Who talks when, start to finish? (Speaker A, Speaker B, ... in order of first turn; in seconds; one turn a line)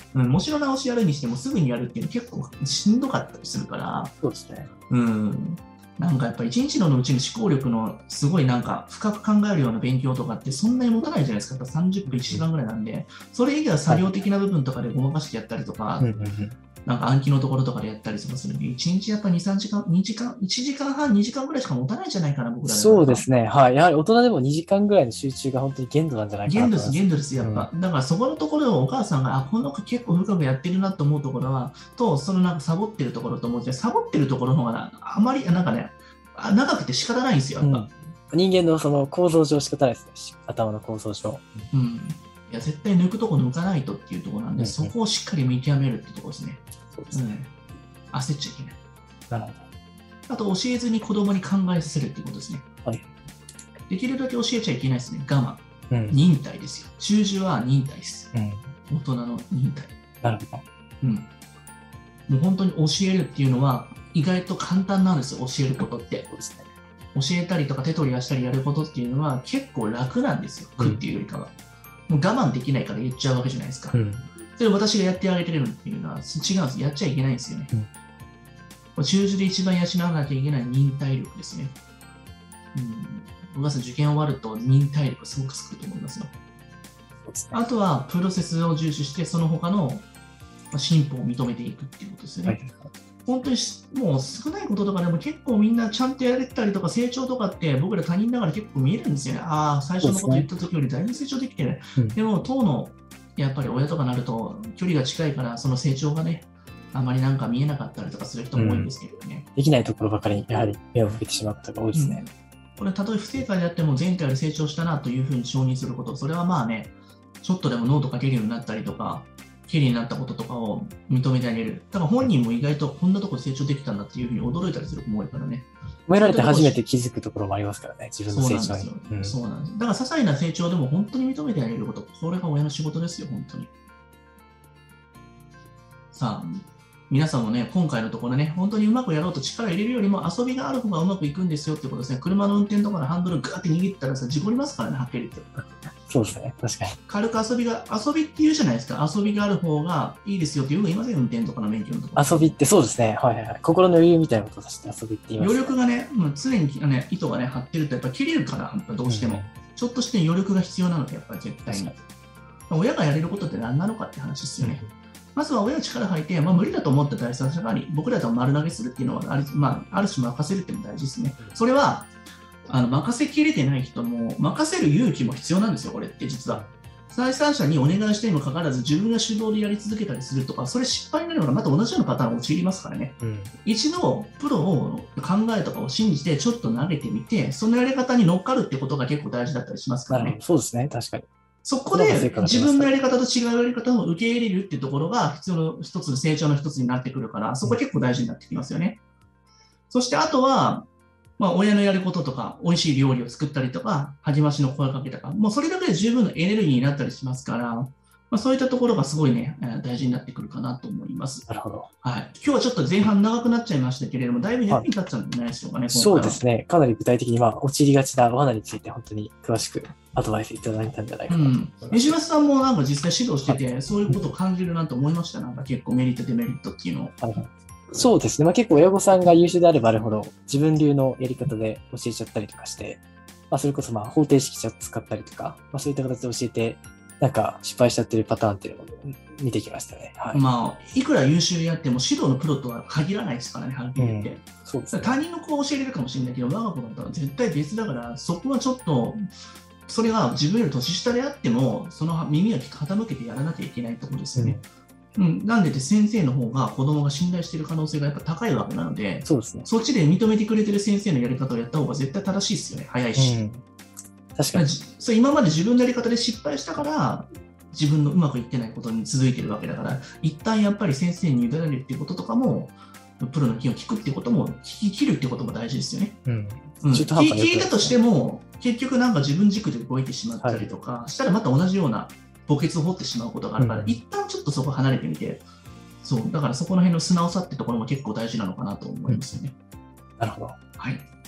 Speaker A: 0.1-4.1
Speaker B: 4.2-4.7
Speaker A: 4.9-16.1
Speaker B: 12.1-12.4
Speaker B: 13.9-14.1
Speaker B: 16.0-16.6
Speaker A: 16.8-23.2
Speaker B: 22.7-27.7
Speaker A: 26.5-37.9
Speaker B: 37.6-41.7
Speaker A: 41.7-47.5
Speaker B: 44.6-44.9
Speaker B: 46.9-47.3
Speaker A: 48.1-48.8
Speaker B: 49.3-49.6
Speaker A: 50.3-52.7
Speaker B: 52.8-53.1
Speaker A: 53.9-58.3
Speaker B: 55.9-56.2
Speaker B: 58.3-58.7
Speaker A: 58.9-59.9
Speaker B: 60.2-60.6
Speaker A: 61.0-61.3
Speaker A: 62.3-66.3
Speaker B: 66.3-66.7
Speaker A: 67.2-71.5
Speaker A: 72.1-74.0
Speaker B: 73.9-74.3
Speaker A: 74.5-77.7
Speaker A: 79.0-81.8
Speaker A: 82.7-86.3
Speaker B: 87.2-87.6
Speaker A: 87.5-90.1
Speaker A: 90.7-92.6
Speaker B: 92.5-92.9
Speaker A: 93.2-109.5
Speaker B: 100.0-100.5
Speaker B: 108.5-108.9
Speaker B: 109.6-112.2
Speaker A: 111.9-126.8
Speaker B: 126.1-129.4
Speaker A: 128.3-133.7
Speaker A: 136.1-145.5
Speaker B: 146.1-147.0
Speaker A: 147.1-152.6
Speaker B: 152.2-155.7
Speaker A: 155.4-162.0
Speaker B: 159.1-159.5
Speaker B: 161.7-162.0
Speaker A: 162.7-164.8
Speaker B: 164.6-164.9
Speaker A: 165.3-172.1
Speaker B: 171.4-171.7
Speaker A: 172.7-190.4
Speaker B: 183.2-183.5
Speaker B: 190.1-191.3
Speaker A: 191.7-199.0
Speaker B: 191.9-192.9
Speaker A: 199.9-211.5
Speaker B: 211.5-211.9
Speaker A: 212.0-216.4
Speaker B: 215.9-222.2
Speaker A: 221.3-227.2
Speaker B: 223.4-224.3
Speaker B: 227.2-240.4
Speaker A: 240.3-249.3
Speaker B: 244.0-245.2
Speaker A: 249.8-254.6
Speaker B: 254.3-254.6
Speaker A: 255.2-263.4
Speaker B: 259.2-259.7
Speaker B: 263.2-263.6
Speaker B: 264.4-264.7
Speaker A: 264.5-276.2
Speaker B: 276.2-278.0
Speaker A: 276.8-285.4
Speaker B: 280.4-280.7
Speaker B: 283.6-284.0
Speaker A: 286.0-289.5
Speaker B: 290.2-290.6
Speaker A: 290.8-291.1